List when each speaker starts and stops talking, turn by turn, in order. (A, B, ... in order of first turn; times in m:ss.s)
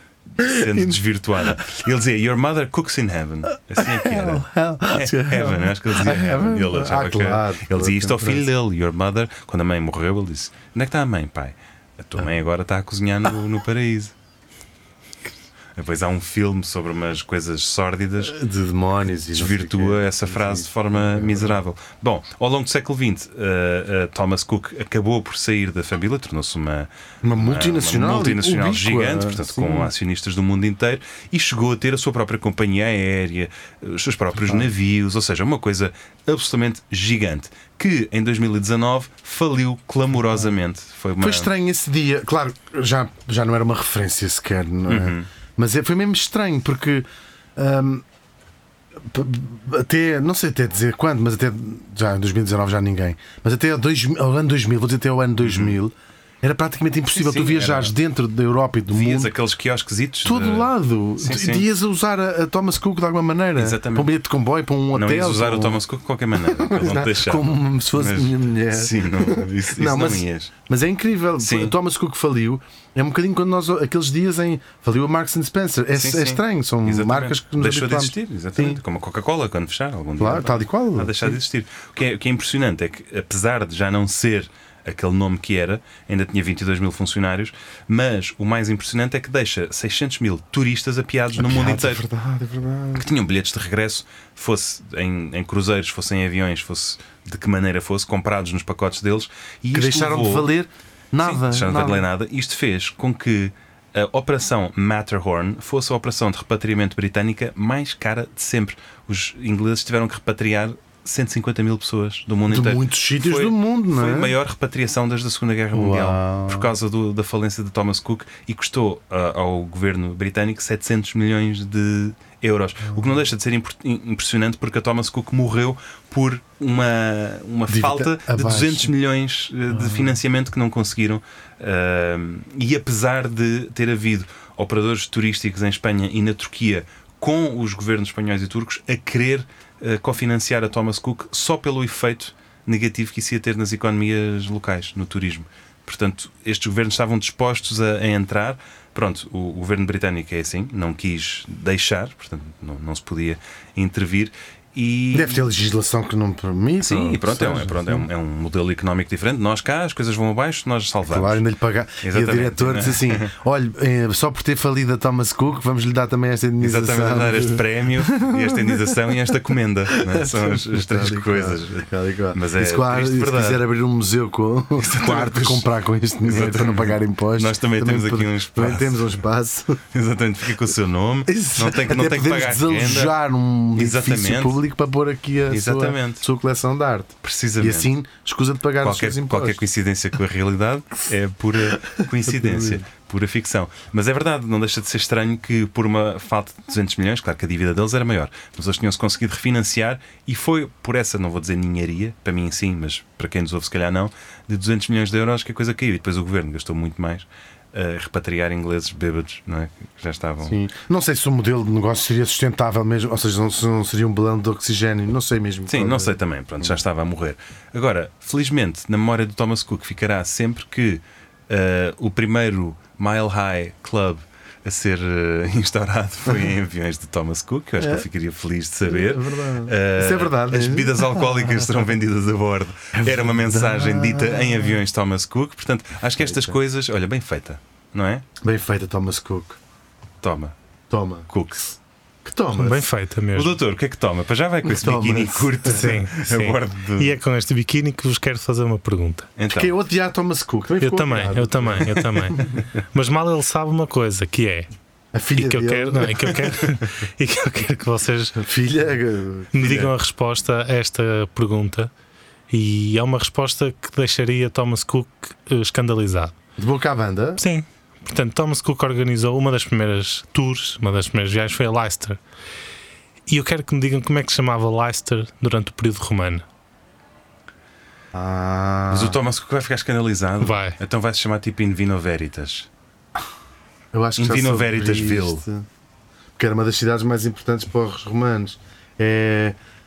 0:00.4-0:14.1 A
0:03.8-0:08.5 B
0:15.7-0:18.4 A
0:18.2-0:21.6 B
0:19.3-0:41.5 A
0:27.2-0:29.9 B
0:41.2-0:48.0 B
0:44.9-0:45.3 A
0:49.0-0:59.3 B
0:55.4-0:55.8 A
0:57.1-0:57.9 A
0:58.9-1:01.6 A
1:00.2-1:05.8 B
1:03.6-1:04.1 A
1:04.9-1:10.5 A
1:06.5-1:18.8 B
1:11.4-1:11.8 A
1:15.9-1:32.0 A
1:20.2-1:21.4 B
1:31.4-1:33.0 B
1:32.9-1:40.5 A
1:39.7-1:42.0 B
1:41.2-2:35.5 A
1:52.5-1:54.3 B
1:55.7-1:56.7 B
2:07.7-2:08.9 B
2:09.7-2:10.1 B
2:35.1-2:38.0 B
2:36.8-2:41.4 A
2:41.1-2:49.0 B
2:42.0-2:43.3 A
2:46.6-2:53.6 A
2:49.9-2:59.8 B
2:54.8-2:55.7 A
2:56.2-2:59.1 A
2:59.9-3:03.2 A
3:01.2-3:09.6 B
3:03.8-3:04.6 A
3:05.5-3:06.2 A
3:07.2-3:07.9 A
3:08.8-3:30.6 A
3:11.8-3:12.8 B
3:30.4-3:36.2 B
3:35.7-3:58.2 A
3:47.8-3:48.0 B
3:48.8-3:51.8 B
3:52.9-3:54.7 B
3:56.2-3:56.6 B
3:58.4-3:59.6 B
4:00.2-4:00.5 A
4:00.9-4:01.3 B
4:01.3-4:01.8 A
4:02.2-4:02.8 B
4:02.5-4:03.6 C
4:03.3-4:07.2 A
4:04.6-4:06.1 B
4:05.7-4:09.3 C
4:09.4-4:09.7 A
4:09.5-4:12.6 B
4:10.8-4:14.7 C
4:15.1-4:16.6 B
4:15.4-4:18.4 C
4:18.4-4:19.9 B
4:19.5-4:21.9 C
4:22.5-4:26.3 C
4:26.6-4:27.4 B
4:27.4-4:32.2 C
4:33.3-4:36.4 C
4:38.1-4:39.2 B
4:38.9-4:42.7 A
4:40.4-4:40.8 C
4:43.9-4:45.6 B
4:44.2-4:45.4 A
4:46.4-4:49.6 B